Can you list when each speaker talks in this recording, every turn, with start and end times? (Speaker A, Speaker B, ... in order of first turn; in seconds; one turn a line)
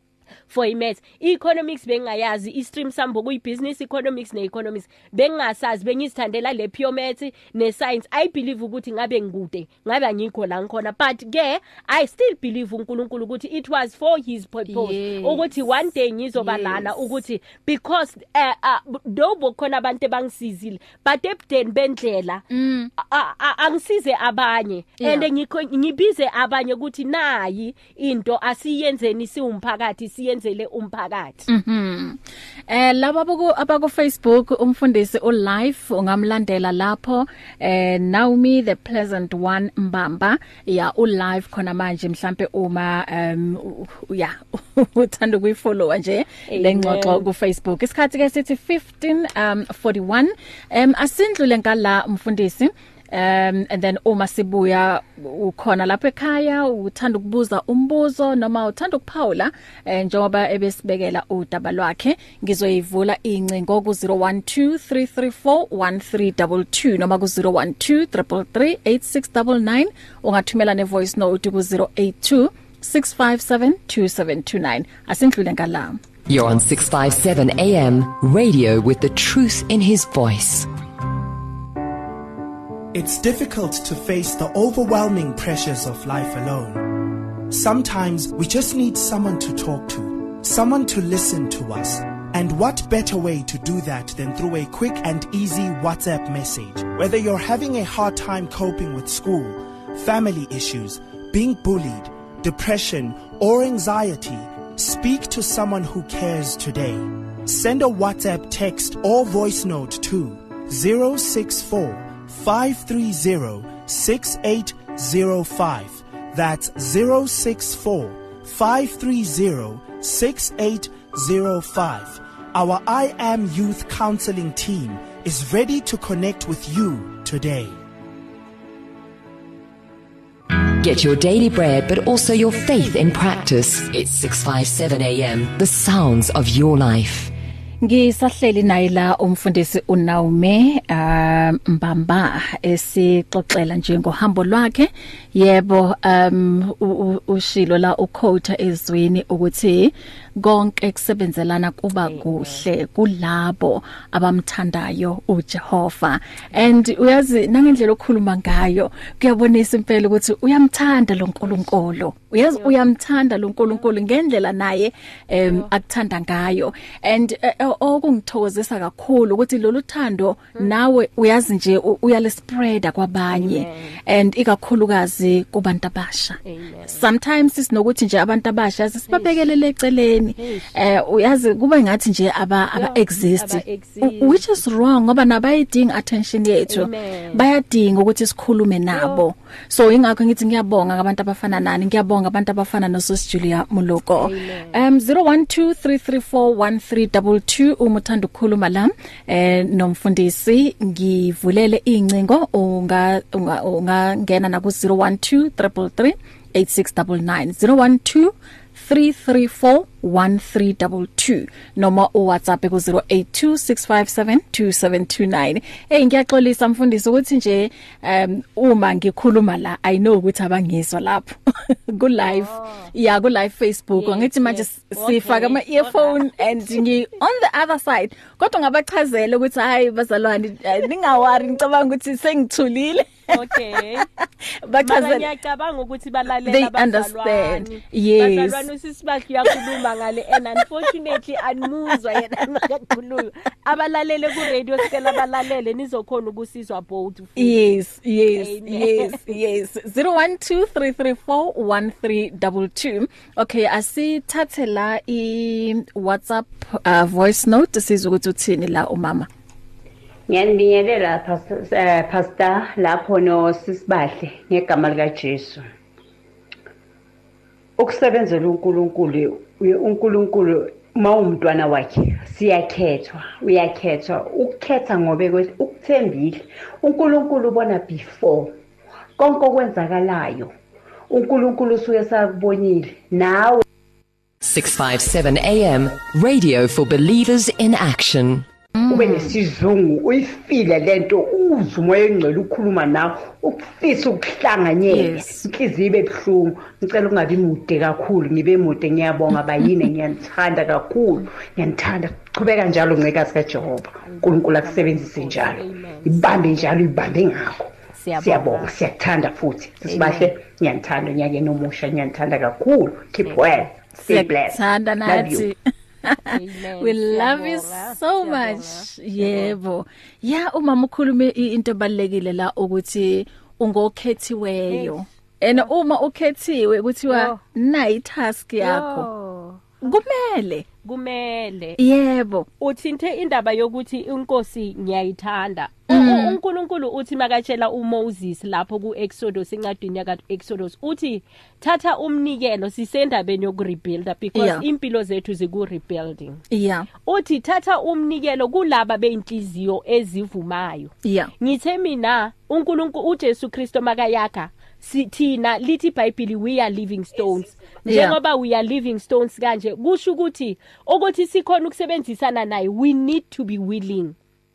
Speaker A: 0.5-22.4
Speaker B: 14.7-15.5
Speaker B: 16.3-17.0
Speaker B: 22.5-22.9
Speaker A: 23.0-31.5
Speaker B: 25.0-25.3
Speaker B: 31.5-76.0
Speaker A: 46.5-47.2
Speaker C: 76.3-80.7
Speaker D: 82.9-127.8
Speaker C: 130.6-137.3
Speaker B: 137.8-235.3
Speaker A: 152.0-152.6
Speaker A: 165.4-165.7
Speaker A: 173.3-174.0
Speaker A: 176.4-177.0
Speaker A: 179.1-179.4
Speaker A: 180.4-180.7
Speaker A: 182.8-184.6
Speaker A: 186.7-187.4
Speaker A: 188.9-189.2
Speaker A: 194.2-194.8
Speaker A: 222.2-222.9
Speaker A: 223.9-226.2
Speaker A: 233.3-234.1
Speaker A: 234.8-247.7
Speaker B: 236.4-238.7
Speaker B: 239.4-241.1
Speaker B: 241.9-242.2
Speaker B: 244.8-245.2
Speaker B: 247.4-259.3
Speaker A: 248.3-249.3
Speaker E: 260.3-265.7
Speaker E: 267.8-278.5
Speaker E: 279.2-280.5
Speaker E: 281.1-283.6
Speaker C: 284.4-288.4
Speaker B: 288.7-289.4
Speaker E: 288.9-315.4
Speaker B: 294.9-295.4
Speaker A: 304.0-306.7
Speaker A: 307.9-308.7
Speaker A: 309.9-310.3
Speaker A: 313.2-313.7
Speaker B: 314.1-329.1
Speaker A: 316.3-319.5
Speaker A: 324.7-325.7
Speaker A: 327.1-327.4
Speaker A: 328.6-329.8
Speaker B: 329.8-330.6
Speaker A: 330.8-331.8
Speaker B: 331.8-332.5
Speaker A: 332.6-346.4
Speaker B: 335.9-336.4
Speaker B: 344.3-344.6
Speaker B: 346.5-346.9
Speaker A: 347.1-364.1
Speaker B: 351.0-351.3
Speaker B: 357.9-358.2